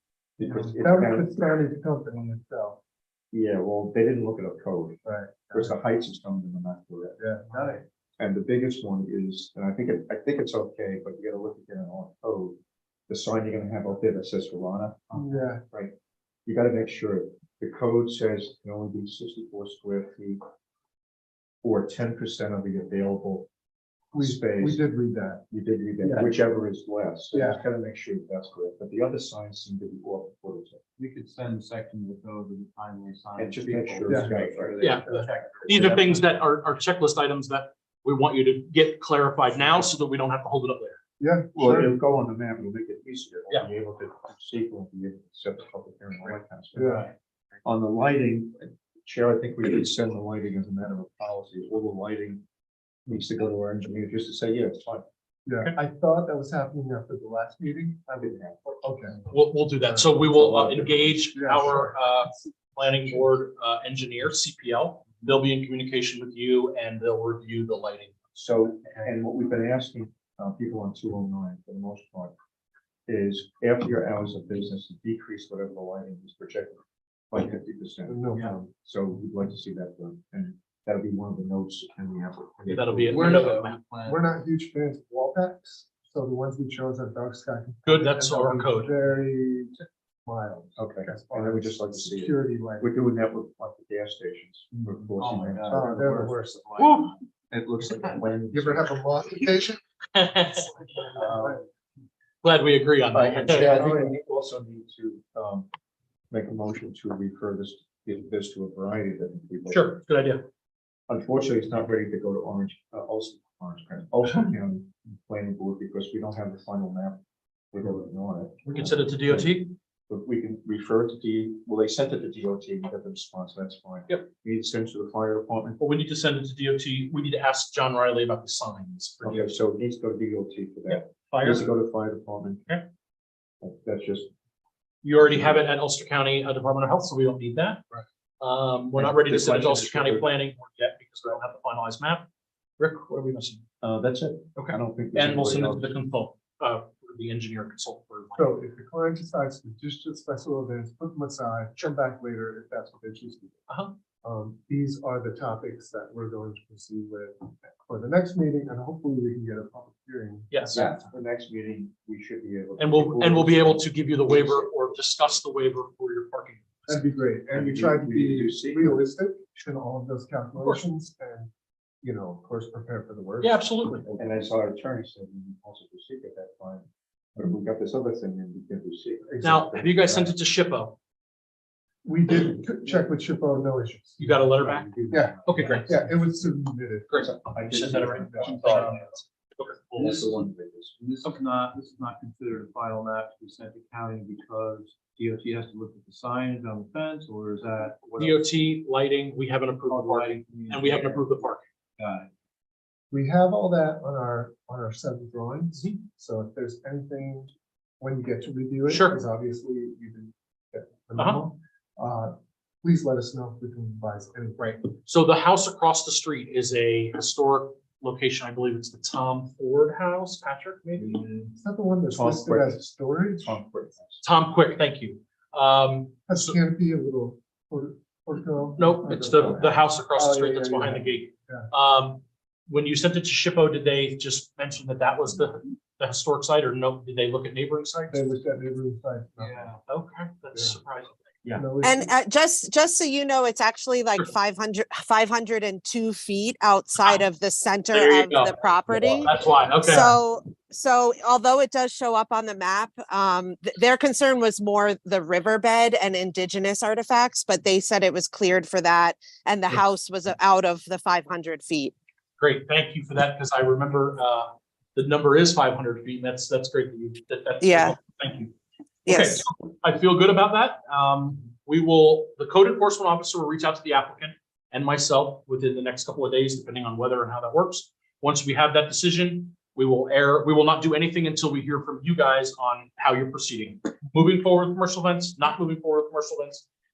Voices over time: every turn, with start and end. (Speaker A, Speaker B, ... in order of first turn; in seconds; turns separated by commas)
Speaker A: 0.4-1.3, Speaker B: 0.4-0.7, Speaker C: 0.8-2.8, Speaker A: 3.3-5.0, Speaker C: 5.0-5.8, Speaker A: 5.5-7.2, Speaker C: 7.2-7.8, Speaker B: 7.5-7.8, Speaker A: 8.2-12.6, Speaker A: 13.1-15.9, Speaker C: 15.1-15.6, Speaker A: 16.4-20.4, Speaker A: 21.6-23.5, Speaker C: 24.1-25.4, Speaker A: 24.1-24.8, Speaker A: 25.5-30.8, Speaker C: 26.0-26.4, Speaker C: 27.3-27.6, Speaker B: 31.0-36.3, Speaker A: 33.4-35.1, Speaker C: 34.1-34.4, Speaker D: 34.8-41.0, Speaker A: 35.6-36.0, Speaker C: 41.2-42.0, Speaker A: 41.5-47.0, Speaker C: 46.7-47.1, Speaker B: 46.8-47.1, Speaker A: 47.6-52.4, Speaker A: 53.1-55.0, Speaker C: 55.5-59.2, Speaker A: 58.2-58.8, Speaker D: 59.3-68.2, Speaker C: 59.8-60.3, Speaker A: 60.3-61.0, Speaker C: 61.1-62.0, Speaker A: 68.3-72.3, Speaker A: 73.1-83.3, Speaker C: 78.1-78.5, Speaker D: 82.7-83.8, Speaker C: 83.1-92.9, Speaker B: 83.1-84.3, Speaker D: 87.8-88.9, Speaker A: 90.8-95.9, Speaker B: 94.7-97.2, Speaker C: 95.7-96.6, Speaker D: 96.8-97.1, Speaker A: 97.5-98.9, Speaker C: 98.5-99.8, Speaker D: 100.1-100.7, Speaker C: 100.8-101.6, Speaker A: 101.1-101.6, Speaker D: 102.4-103.7, Speaker A: 103.1-105.7, Speaker C: 103.6-104.2, Speaker A: 106.3-109.9, Speaker D: 109.7-110.4, Speaker A: 111.1-117.2, Speaker D: 114.2-114.5, Speaker A: 117.7-119.5, Speaker D: 118.7-119.7, Speaker A: 120.1-125.8, Speaker D: 125.8-129.5, Speaker A: 129.2-132.6, Speaker D: 130.9-131.8, Speaker A: 133.6-134.3, Speaker D: 135.0-137.8, Speaker A: 135.2-135.6, Speaker D: 138.4-142.2, Speaker A: 138.9-140.3, Speaker D: 142.8-143.6, Speaker A: 143.8-146.0, Speaker D: 144.6-148.5, Speaker C: 148.3-153.6, Speaker D: 153.7-153.9, Speaker C: 154.2-161.1, Speaker D: 160.5-160.8, Speaker A: 160.7-165.3, Speaker D: 162.8-167.0, Speaker C: 166.9-171.5, Speaker A: 167.5-169.0, Speaker D: 170.6-170.8, Speaker C: 172.0-174.2, Speaker D: 173.4-174.0, Speaker A: 174.1-180.3, Speaker D: 179.4-180.9, Speaker C: 182.0-184.2, Speaker D: 184.2-186.0, Speaker B: 184.2-186.1, Speaker C: 185.1-188.9, Speaker D: 187.1-190.2, Speaker A: 187.3-188.9, Speaker B: 188.4-189.1, Speaker B: 189.9-198.4, Speaker A: 190.0-190.9, Speaker D: 198.2-201.6, Speaker B: 199.8-201.2, Speaker B: 202.0-202.3, Speaker C: 203.1-214.9, Speaker D: 208.9-209.2, Speaker D: 211.2-211.4, Speaker D: 214.9-221.1, Speaker C: 221.5-223.6, Speaker A: 222.1-222.8, Speaker A: 223.4-224.2, Speaker D: 224.2-226.6, Speaker C: 226.3-231.7, Speaker D: 228.8-238.3, Speaker C: 238.1-239.7, Speaker B: 239.4-239.8, Speaker D: 239.9-241.6, Speaker C: 241.5-242.1, Speaker E: 241.8-261.9, Speaker D: 247.0-247.2, Speaker D: 247.9-250.2, Speaker D: 262.4-268.5, Speaker E: 267.6-267.9, Speaker E: 269.1-269.4, Speaker D: 269.1-286.6